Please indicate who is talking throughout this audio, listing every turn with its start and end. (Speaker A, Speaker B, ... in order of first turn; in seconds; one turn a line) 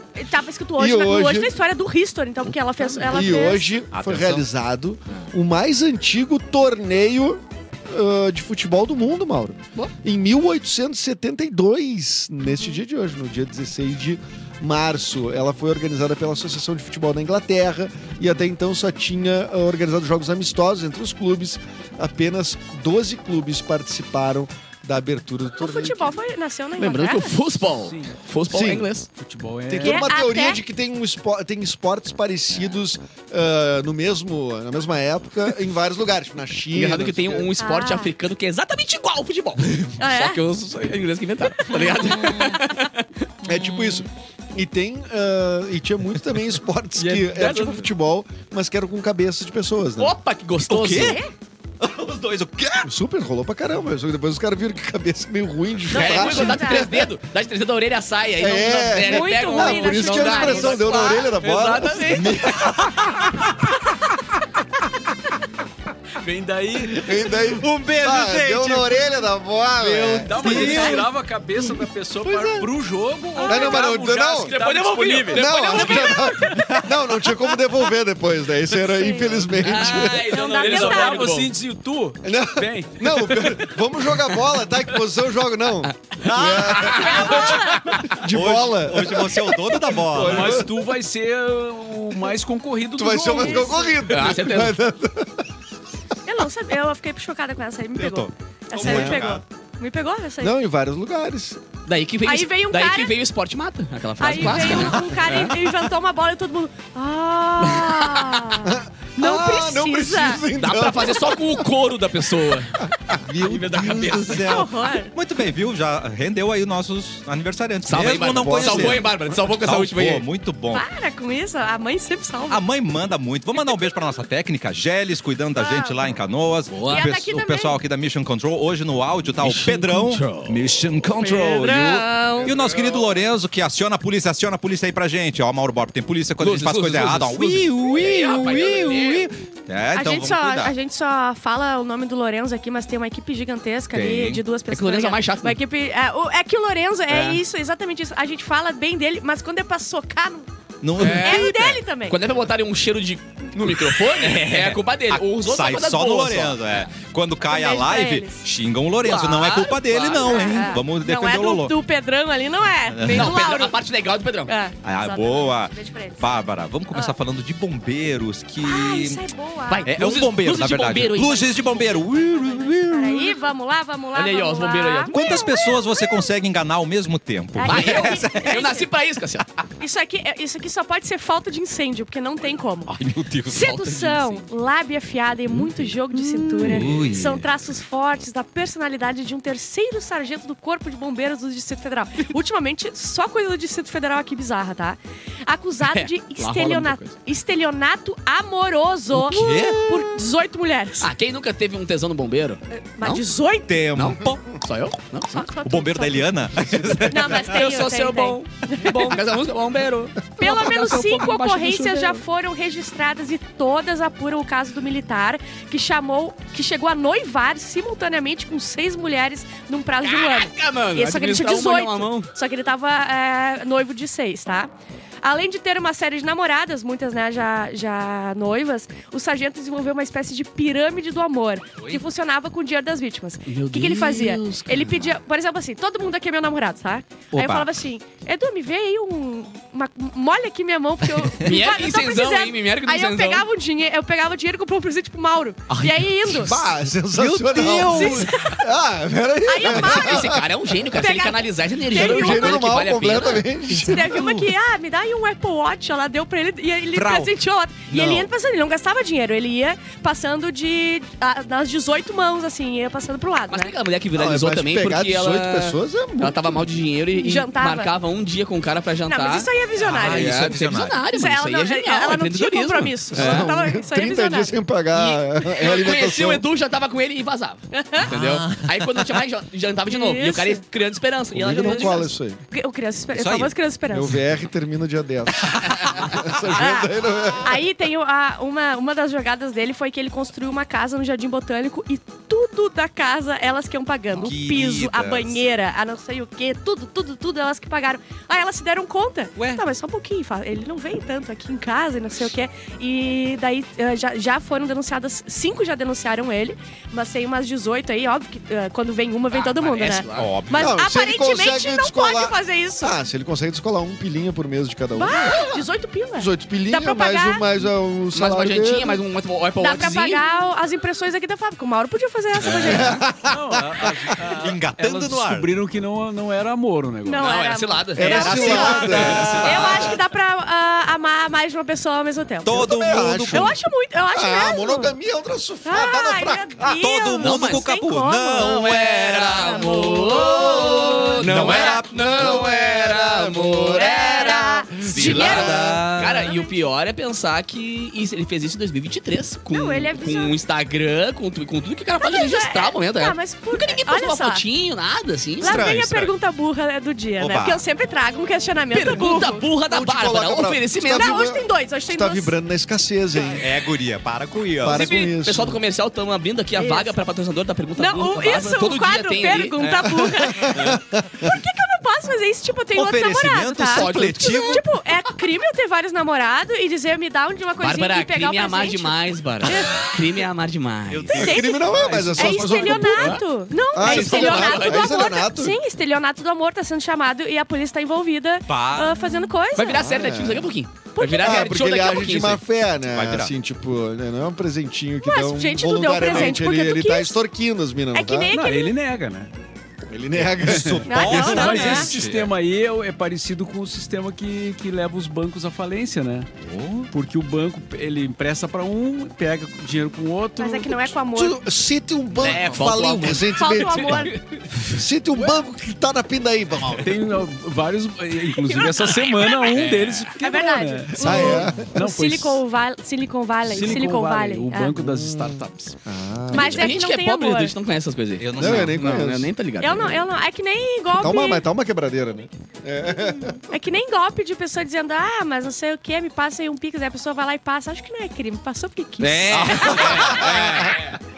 Speaker A: 0.1-3.7
Speaker B: 0.8-1.5
Speaker C: 2.4-3.5
Speaker B: 3.1-26.1
Speaker D: 3.9-4.5
Speaker A: 25.6-27.4
Speaker C: 26.8-29.1
Speaker E: 27.8-28.2
Speaker B: 28.5-28.9
Speaker E: 29.1-30.0
Speaker B: 29.7-37.5
Speaker A: 29.8-30.6
Speaker C: 36.7-43.0
Speaker A: 37.6-38.1
Speaker A: 40.0-40.4
Speaker A: 41.6-42.8
Speaker B: 43.4-50.1
Speaker E: 47.0-47.7
Speaker C: 47.0-47.9
Speaker C: 50.0-51.2
Speaker D: 50.7-51.2
Speaker A: 50.9-51.3
Speaker D: 51.8-52.9
Speaker B: 52.8-57.1
Speaker C: 55.9-62.4
Speaker A: 55.9-56.9
Speaker B: 58.4-63.1
Speaker A: 59.0-61.3
Speaker D: 62.1-63.7
Speaker E: 66.2-67.1
Speaker B: 66.9-72.7
Speaker D: 67.4-69.1
Speaker E: 69.8-75.9
Speaker D: 70.3-71.0
Speaker A: 70.4-71.0
Speaker A: 73.3-73.9
Speaker B: 73.5-74.5
Speaker C: 74.3-76.4
Speaker B: 75.3-80.4
Speaker A: 75.7-76.5
Speaker D: 76.5-77.4
Speaker A: 79.0-79.5
Speaker E: 79.5-83.6
Speaker C: 79.6-81.5
Speaker A: 80.3-81.3
Speaker B: 82.2-90.8
Speaker C: 85.8-88.0
Speaker D: 86.2-90.6
Speaker A: 87.1-88.0
Speaker E: 90.1-93.8
Speaker B: 93.0-95.5
Speaker A: 93.3-94.0
Speaker C: 94.1-94.8
Speaker A: 96.2-100.5
Speaker D: 98.0-99.4
Speaker B: 98.8-99.3
Speaker B: 100.4-101.6
Speaker C: 101.8-105.6
Speaker A: 102.2-103.1
Speaker A: 104.2-110.4
Speaker C: 107.6-108.5
Speaker B: 108.6-111.6
Speaker C: 110.6-112.8
Speaker B: 112.9-114.3
Speaker D: 113.4-120.8
Speaker C: 113.4-114.5
Speaker A: 114.4-115.1
Speaker C: 117.8-120.2
Speaker B: 117.9-119.1
Speaker A: 120.7-122.6
Speaker D: 122.5-140.7
Speaker A: 125.5-126.2
Speaker C: 126.7-127.1
Speaker A: 126.8-127.8
Speaker C: 129.4-130.6
Speaker A: 131.2-132.5
Speaker C: 136.4-139.3
Speaker A: 139.9-150.5
Speaker D: 143.9-144.4
Speaker C: 144.7-145.6
Speaker C: 147.1-147.4
Speaker D: 150.8-151.8
Speaker C: 150.9-151.5
Speaker A: 151.1-152.2
Speaker C: 152.0-156.9
Speaker D: 153.6-161.7
Speaker A: 157.5-158.4
Speaker C: 159.0-160.8
Speaker A: 160.1-163.8
Speaker D: 162.9-163.4
Speaker C: 163.1-164.5
Speaker A: 164.5-166.3
Speaker D: 164.8-169.2
Speaker A: 168.6-169.9
Speaker C: 169.7-172.1
Speaker D: 169.9-173.3
Speaker A: 172.2-176.3
Speaker C: 174.1-175.6
Speaker D: 175.1-178.7
Speaker A: 177.6-178.9
Speaker C: 177.6-179.4
Speaker A: 179.8-182.9
Speaker D: 182.9-183.7
Speaker A: 183.5-201.1
Speaker C: 183.5-184.4
Speaker C: 186.1-187.0
Speaker D: 186.6-187.5
Speaker C: 195.8-197.1
Speaker D: 199.1-200.0
Speaker C: 199.3-199.8
Speaker C: 201.0-203.2
Speaker A: 202.7-203.7
Speaker D: 203.7-204.5
Speaker C: 203.9-205.5
Speaker A: 205.3-209.2
Speaker D: 205.6-207.5
Speaker C: 207.3-212.2
Speaker A: 210.4-224.7
Speaker C: 220.0-222.3
Speaker A: 225.2-246.6
Speaker C: 233.5-235.1
Speaker D: 237.3-237.7
Speaker C: 241.4-243.4
Speaker D: 245.7-246.5
Speaker B: 246.3-250.4
Speaker D: 247.1-248.3
Speaker A: 247.9-248.7
Speaker A: 249.4-252.8
Speaker C: 249.6-253.5
Speaker B: 251.9-254.2
Speaker D: 253.7-254.5
Speaker A: 253.8-263.7
Speaker D: 256.9-257.3
Speaker D: 257.9-258.3
Speaker C: 263.5-269.5
Speaker B: 264.1-266.6
Speaker A: 267.1-267.9
Speaker A: 269.1-270.5
Speaker D: 269.8-271.0
Speaker C: 270.1-273.6
Speaker A: 271.1-274.5
Speaker B: 273.1-276.4
Speaker C: 274.9-282.1
Speaker A: 277.7-278.1
Speaker D: 278.0-279.0
Speaker A: 279.9-280.6
Speaker B: 281.3-282.4
Speaker A: 281.6-284.2
Speaker D: 283.1-283.5
Speaker B: 283.9-287.6
Speaker A: 286.5-313.0
Speaker D: 294.2-295.4
Speaker D: 299.4-299.6
Speaker C: 309.3-310.4
Speaker D: 310.1-310.7
Speaker B: 310.5-319.0
Speaker A: 314.9-317.6
Speaker C: 318.1-320.2
Speaker A: 319.6-323.1
Speaker D: 322.4-323.0
Speaker B: 322.4-324.1
Speaker E: 323.2-327.3
Speaker D: 324.3-325.5
Speaker A: 327.0-332.7
Speaker C: 327.1-329.5
Speaker B: 327.9-329.9
Speaker D: 328.0-330.0
Speaker E: 329.1-329.5
Speaker D: 332.4-333.6
Speaker B: 332.5-333.6
Speaker A: 333.3-334.9
Speaker B: 334.1-336.8
Speaker A: 335.6-338.5
Speaker D: 336.6-339.6
Speaker C: 337.2-337.6
Speaker C: 338.4-355.8
Speaker A: 339.4-341.2
Speaker B: 339.6-345.7
Speaker D: 341.2-342.0
Speaker A: 343.7-346.5
Speaker D: 344.9-346.3
Speaker A: 349.5-350.3
Speaker A: 352.0-354.4
Speaker D: 355.4-356.1
Speaker A: 355.4-359.4
Speaker D: 357.2-357.6
Speaker C: 358.7-361.2
Speaker B: 359.0-363.5
Speaker A: 360.9-362.3
Speaker D: 363.3-365.1
Speaker B: 364.6-365.6
Speaker C: 364.7-370.8
Speaker A: 366.6-366.9
Speaker A: 367.8-379.8
Speaker B: 370.0-371.3
Speaker D: 372.7-374.6
Speaker C: 373.7-374.6
Speaker C: 377.6-381.4
Speaker D: 380.9-381.6
Speaker A: 381.1-389.9
Speaker B: 381.2-385.6
Speaker E: 381.6-383.2
Speaker C: 383.8-385.0
Speaker D: 388.5-389.0
Speaker C: 389.6-392.4
Speaker B: 389.7-390.5
Speaker A: 390.9-391.6
Speaker B: 391.2-398.3
Speaker D: 392.8-393.3
Speaker A: 395.0-397.2
Speaker A: 397.9-398.7
Speaker E: 398.3-399.3
Speaker B: 399.9-400.9
Speaker D: 400.4-402.3
Speaker E: 400.4-406.3
Speaker A: 400.9-401.9
Speaker D: 406.4-406.9
Speaker E: 406.9-410.9
Speaker A: 410.4-411.4
Speaker B: 411.1-417.0
Speaker C: 412.1-414.2
Speaker A: 413.3-414.2
Speaker E: 416.8-422.4
Speaker A: 418.3-419.7
Speaker C: 419.5-420.1
Speaker A: 420.2-424.8
Speaker B: 421.0-421.7
Speaker E: 423.4-425.8
Speaker B: 424.8-426.8
Speaker A: 426.3-427.5
Speaker C: 426.3-430.0
Speaker D: 428.2-429.1
Speaker B: 428.4-429.3
Speaker A: 429.6-431.4
Speaker B: 430.9-433.4
Speaker A: 433.5-440.2
Speaker C: 439.0-441.0
Speaker D: 439.3-440.7
Speaker B: 440.2-440.5